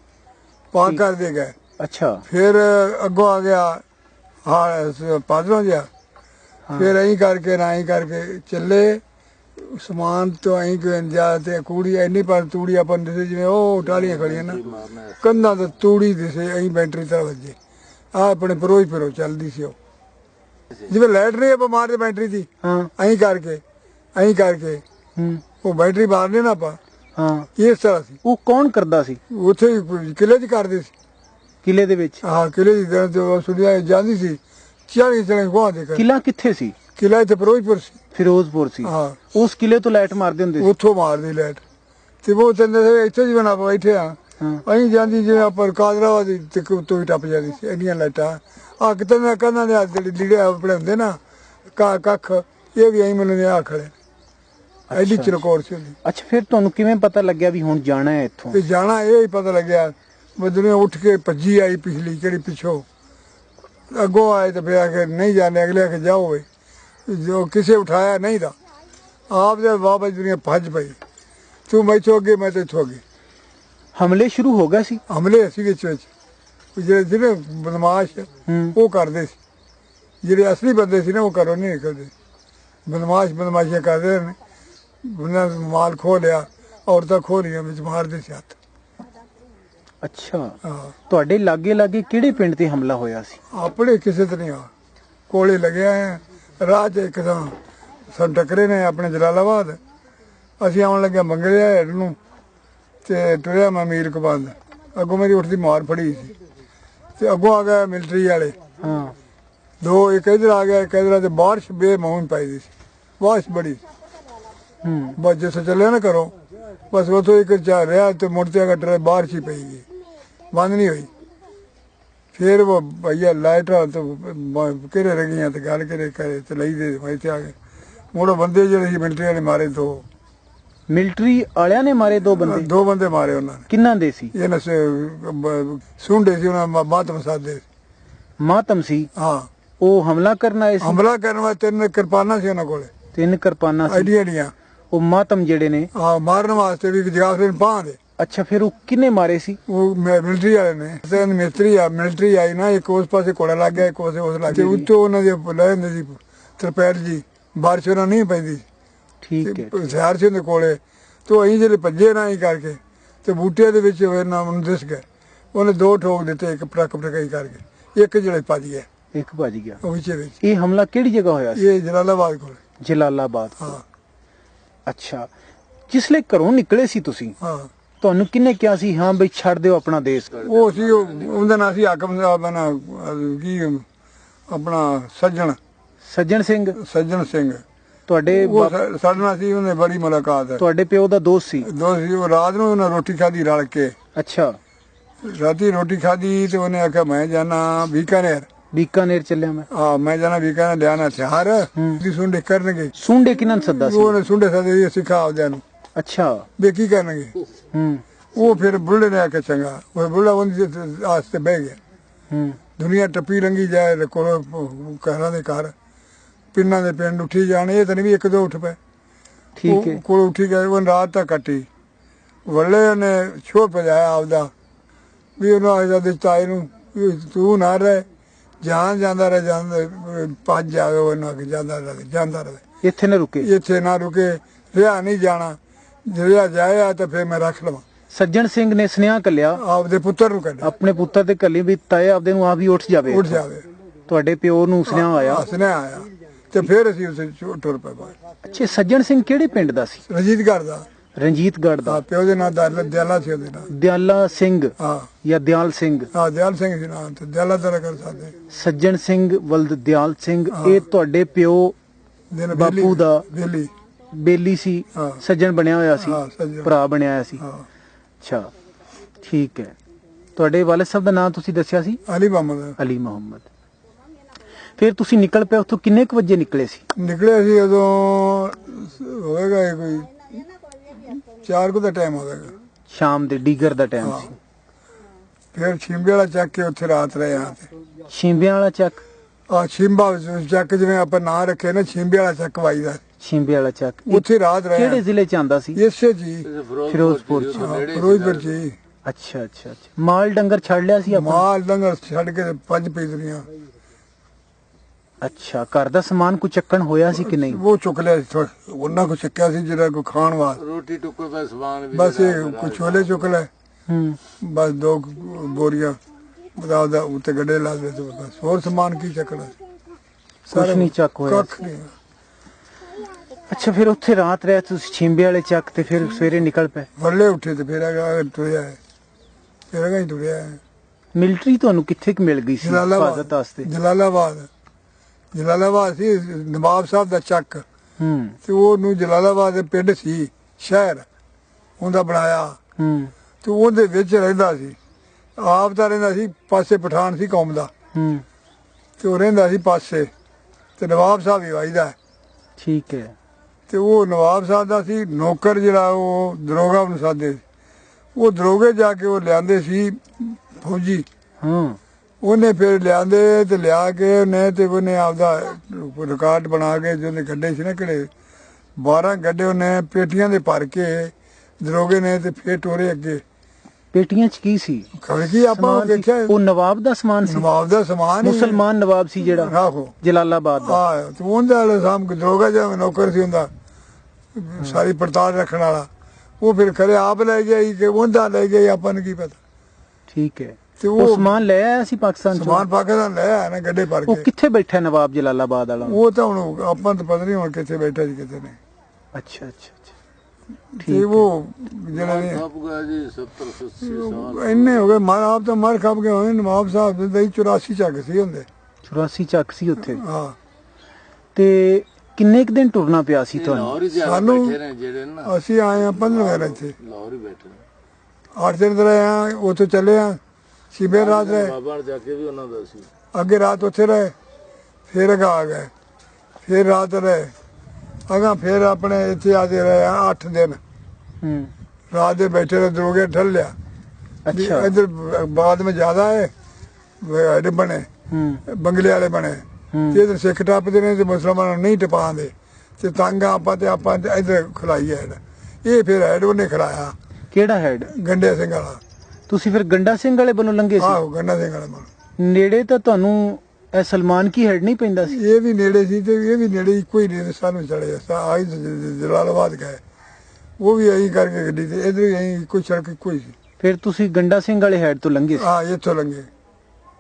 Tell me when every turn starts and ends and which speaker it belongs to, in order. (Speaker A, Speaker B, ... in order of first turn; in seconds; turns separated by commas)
Speaker A: 0.7-1.6, Speaker B: 1.8-2.2, Speaker A: 2.3-3.8, Speaker A: 4.5-5.9, Speaker A: 6.7-9.0, Speaker A: 9.6-14.6, Speaker C: 13.9-15.2, Speaker A: 15.2-17.6, Speaker A: 18.1-19.8, Speaker A: 20.9-23.6, Speaker B: 22.6-22.9, Speaker A: 24.2-24.8, Speaker B: 25.2-25.4, Speaker A: 25.6-26.8, Speaker B: 27.2-27.5, Speaker A: 27.6-28.2, Speaker B: 28.2-29.2, Speaker A: 29.3-30.9, Speaker B: 31.6-32.2, Speaker A: 32.2-36.0, Speaker B: 36.0-36.8, Speaker A: 37.0-38.0, Speaker B: 38.1-40.7, Speaker A: 38.8-39.2, Speaker A: 40.6-41.6, Speaker A: 42.2-51.2, Speaker A: 51.8-53.9, Speaker B: 54.9-55.4, Speaker A: 54.9-56.0, Speaker B: 56.0-58.6, Speaker A: 58.5-62.9, Speaker A: 63.9-66.5, Speaker A: 67.1-68.5, Speaker A: 69.3-71.0, Speaker A: 71.7-73.0, Speaker B: 74.0-75.0, Speaker A: 75.1-76.1, Speaker A: 76.8-79.4, Speaker B: 78.5-78.8, Speaker A: 80.2-82.1, Speaker A: 82.9-84.4, Speaker A: 85.0-88.6, Speaker B: 90.0-90.6, Speaker A: 90.7-90.9, Speaker B: 91.1-93.4, Speaker A: 93.5-94.7, Speaker A: 95.3-97.6, Speaker A: 98.1-99.8, Speaker A: 100.6-102.2, Speaker A: 103.0-106.3, Speaker A: 107.2-108.6, Speaker B: 108.8-109.2, Speaker A: 109.8-112.7, Speaker A: 113.2-113.8, Speaker B: 114.8-115.2, Speaker A: 115.2-116.3, Speaker A: 116.9-119.8, Speaker A: 120.5-121.1, Speaker A: 122.3-127.5, Speaker A: 128.1-130.0, Speaker B: 130.9-132.7, Speaker A: 132.3-133.7, Speaker B: 133.7-134.3, Speaker A: 134.3-137.6, Speaker B: 138.4-139.1, Speaker A: 139.2-139.5, Speaker B: 139.8-141.0, Speaker A: 140.8-142.9, Speaker B: 143.1-144.1, Speaker A: 143.9-144.5, Speaker B: 144.9-145.9, Speaker A: 145.9-148.0, Speaker B: 148.2-149.6, Speaker A: 149.7-158.7, Speaker B: 154.5-154.9, Speaker B: 159.2-159.7, Speaker A: 159.4-168.9, Speaker B: 169.2-169.8, Speaker A: 169.8-170.4, Speaker B: 170.4-171.7, Speaker A: 171.6-172.6, Speaker B: 172.8-173.8, Speaker B: 174.9-175.3, Speaker B: 175.9-177.3, Speaker A: 177.4-177.7, Speaker B: 178.0-180.3, Speaker C: 180.3-181.5, Speaker A: 180.4-183.8, Speaker A: 184.5-185.6, Speaker B: 186.1-186.8, Speaker A: 186.8-187.6, Speaker B: 188.1-188.8, Speaker A: 188.3-190.6, Speaker B: 190.6-191.7, Speaker A: 191.6-193.9, Speaker B: 194.2-194.6, Speaker A: 195.2-198.5, Speaker B: 198.7-199.7, Speaker A: 199.7-202.9, Speaker B: 203.0-204.2, Speaker A: 203.7-205.6, Speaker B: 206.0-206.5, Speaker A: 206.6-207.3, Speaker B: 207.7-208.0, Speaker A: 208.3-211.8, Speaker B: 212.3-212.6, Speaker A: 212.8-215.7, Speaker A: 216.5-218.8, Speaker B: 219.6-220.0, Speaker A: 219.7-221.7, Speaker A: 222.5-224.5, Speaker A: 225.4-228.1, Speaker A: 228.6-232.6, Speaker B: 232.8-233.5, Speaker A: 233.4-237.8, Speaker B: 238.1-239.6, Speaker A: 239.6-240.7, Speaker B: 240.6-243.4, Speaker A: 243.1-243.7, Speaker B: 244.1-245.5, Speaker A: 244.9-248.2, Speaker B: 248.4-250.0, Speaker A: 250.1-250.9, Speaker B: 251.2-252.0, Speaker A: 251.9-253.7, Speaker B: 253.7-256.1, Speaker A: 254.8-255.1, Speaker A: 256.1-258.3, Speaker B: 258.5-261.8, Speaker A: 260.5-260.8, Speaker A: 262.3-263.7, Speaker B: 262.5-263.2, Speaker B: 264.1-267.4, Speaker A: 264.9-265.2, Speaker A: 266.0-266.7, Speaker A: 267.4-267.7, Speaker B: 268.2-268.5, Speaker B: 269.2-269.8, Speaker B: 270.4-272.0, Speaker A: 272.1-272.8, Speaker B: 272.8-273.4, Speaker B: 274.8-276.9, Speaker A: 277.0-280.4, Speaker A: 280.9-282.5, Speaker B: 282.9-284.4, Speaker A: 284.0-284.3, Speaker A: 285.5-287.7, Speaker B: 288.1-289.0, Speaker A: 289.5-293.0, Speaker B: 293.2-295.8, Speaker A: 294.1-295.0, Speaker A: 295.8-296.5, Speaker C: 296.4-298.5, Speaker B: 296.9-297.7, Speaker A: 297.6-298.8, Speaker B: 299.1-301.4, Speaker A: 301.1-303.5, Speaker B: 305.2-307.6, Speaker A: 307.1-310.6, Speaker C: 310.6-313.2, Speaker A: 311.9-313.5, Speaker B: 313.9-314.2, Speaker A: 314.4-316.0, Speaker A: 316.6-319.5, Speaker A: 320.5-321.9, Speaker B: 320.5-321.5, Speaker B: 323.5-326.9, Speaker A: 327.0-328.8, Speaker A: 329.7-330.6, Speaker B: 331.1-333.7, Speaker A: 332.6-334.5, Speaker A: 335.3-337.6, Speaker B: 338.0-338.4, Speaker A: 338.4-341.1, Speaker A: 341.8-342.6, Speaker B: 342.8-343.1, Speaker A: 343.4-344.8, Speaker A: 345.4-347.7, Speaker B: 347.9-348.2, Speaker A: 349.0-350.1, Speaker A: 350.8-351.9, Speaker B: 352.6-353.1, Speaker A: 353.7-357.4, Speaker A: 358.2-361.1, Speaker B: 361.4-361.8, Speaker A: 362.2-368.1, Speaker A: 368.8-373.2, Speaker B: 373.9-374.9, Speaker A: 375.0-376.4, Speaker B: 375.5-377.5, Speaker A: 377.3-378.6, Speaker B: 378.2-380.8, Speaker A: 379.2-379.9, Speaker A: 380.6-383.5, Speaker A: 384.4-385.9, Speaker A: 386.4-389.4, Speaker B: 390.1-392.6, Speaker A: 390.8-391.3, Speaker A: 392.3-394.3, Speaker B: 394.1-396.0, Speaker A: 395.8-398.6, Speaker B: 399.1-399.9, Speaker A: 400.8-402.4, Speaker B: 400.8-401.3, Speaker C: 401.9-404.9, Speaker A: 403.8-408.5, Speaker B: 408.9-410.0, Speaker A: 409.8-410.4, Speaker B: 411.4-413.8, Speaker C: 413.3-415.3, Speaker A: 414.0-414.6, Speaker A: 415.2-416.8, Speaker C: 415.9-417.6, Speaker A: 418.4-420.2, Speaker A: 420.7-421.6, Speaker C: 420.9-422.9, Speaker A: 423.1-424.1, Speaker A: 424.9-425.7, Speaker A: 426.4-427.3, Speaker A: 428.1-430.6, Speaker B: 431.2-431.5, Speaker A: 431.9-433.5, Speaker B: 434.3-434.8, Speaker A: 434.3-436.3, Speaker A: 437.0-437.9, Speaker B: 438.1-438.4, Speaker A: 438.5-446.9, Speaker B: 439.7-440.0, Speaker B: 447.3-447.9, Speaker A: 447.9-448.8, Speaker B: 449.3-451.0, Speaker A: 450.8-451.9, Speaker B: 452.2-455.2, Speaker A: 455.1-459.8, Speaker A: 460.6-463.4, Speaker B: 463.6-465.5, Speaker A: 465.4-466.3